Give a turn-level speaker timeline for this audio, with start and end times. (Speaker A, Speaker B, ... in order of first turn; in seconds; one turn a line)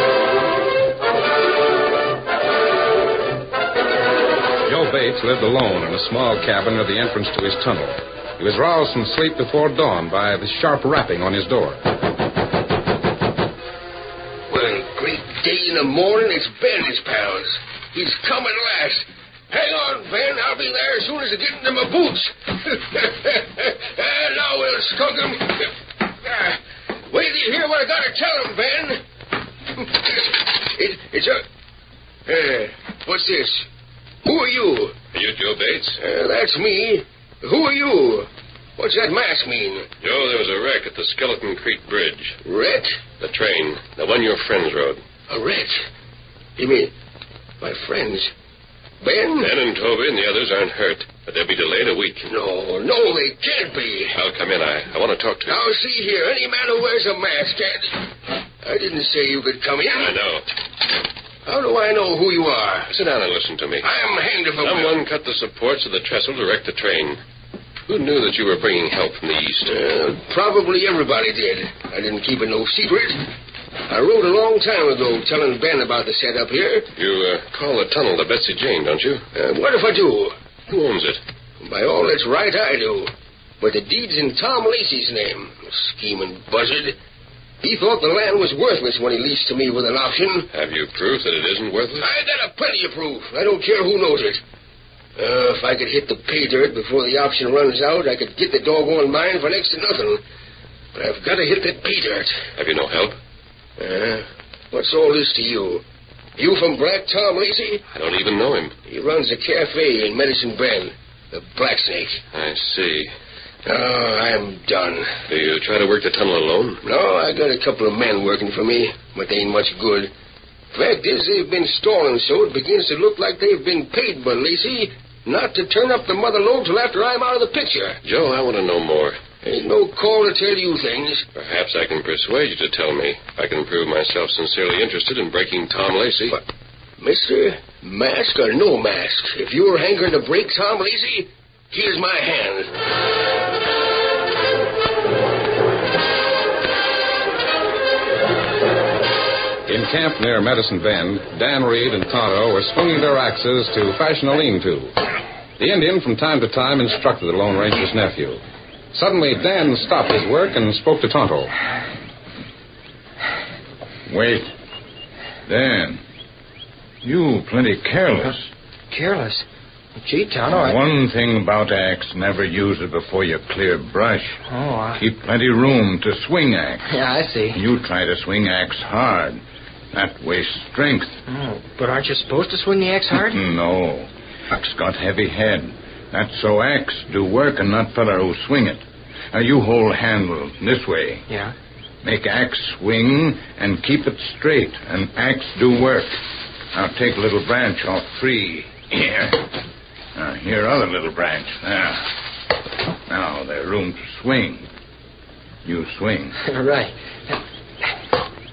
Speaker A: 4.6-11.8
Speaker B: 14.5-29.0
Speaker B: 29.8-31.4
Speaker B: 32.2-33.7
Speaker B: 34.2-35.0
Speaker C: 35.1-36.0
Speaker B: 36.0-39.9
Speaker C: 40.0-42.4
Speaker B: 42.4-43.0
Speaker C: 43.2-45.0
Speaker B: 45.3-45.8
Speaker B: 46.6-46.9
Speaker B: 47.6-48.3
Speaker B: 49.0-49.5
Speaker C: 49.4-52.3
Speaker B: 52.2-54.1
Speaker C: 54.1-55.7
Speaker B: 55.5-58.0
Speaker B: 58.6-60.1
Speaker C: 59.9-60.5
Speaker B: 61.4-62.9
Speaker C: 62.9-63.9
Speaker B: 63.8-65.0
Speaker C: 64.6-67.2
Speaker C: 67.9-69.7
Speaker B: 69.7-73.3
Speaker B: 73.9-76.9
Speaker C: 77.0-79.2
Speaker B: 79.3-80.3
Speaker C: 80.7-81.2
Speaker B: 81.6-87.0
Speaker B: 87.6-90.5
Speaker C: 90.5-92.1
Speaker B: 92.0-94.4
Speaker B: 95.2-100.2
Speaker B: 100.9-102.4
Speaker C: 102.5-103.2
Speaker B: 103.8-105.8
Speaker B: 106.4-107.8
Speaker C: 107.9-108.7
Speaker B: 108.8-112.2
Speaker C: 112.3-113.1
Speaker B: 113.6-115.1
Speaker C: 115.3-116.8
Speaker B: 116.8-120.1
Speaker B: 120.7-128.0
Speaker C: 128.0-129.2
Speaker B: 129.4-131.2
Speaker C: 131.3-136.4
Speaker B: 137.0-142.7
Speaker A: 149.7-154.9
Speaker A: 155.6-158.4
Speaker A: 158.9-161.5
Speaker D: 164.1-164.5
Speaker D: 165.4-166.0
Speaker D: 167.0-168.5
Speaker E: 168.9-169.4
Speaker E: 170.0-170.8
Speaker D: 170.5-174.4
Speaker E: 174.5-175.0
Speaker D: 175.0-176.8
Speaker E: 176.8-177.6
Speaker D: 177.5-179.4
Speaker D: 179.9-181.1
Speaker E: 181.3-183.4
Speaker D: 183.2-191.2
Speaker E: 191.3-191.5
Speaker D: 192.0-196.2
Speaker D: 196.7-199.5
Speaker D: 200.2-202.1
Speaker D: 203.1-204.7
Speaker D: 205.6-206.3
Speaker E: 206.4-207.4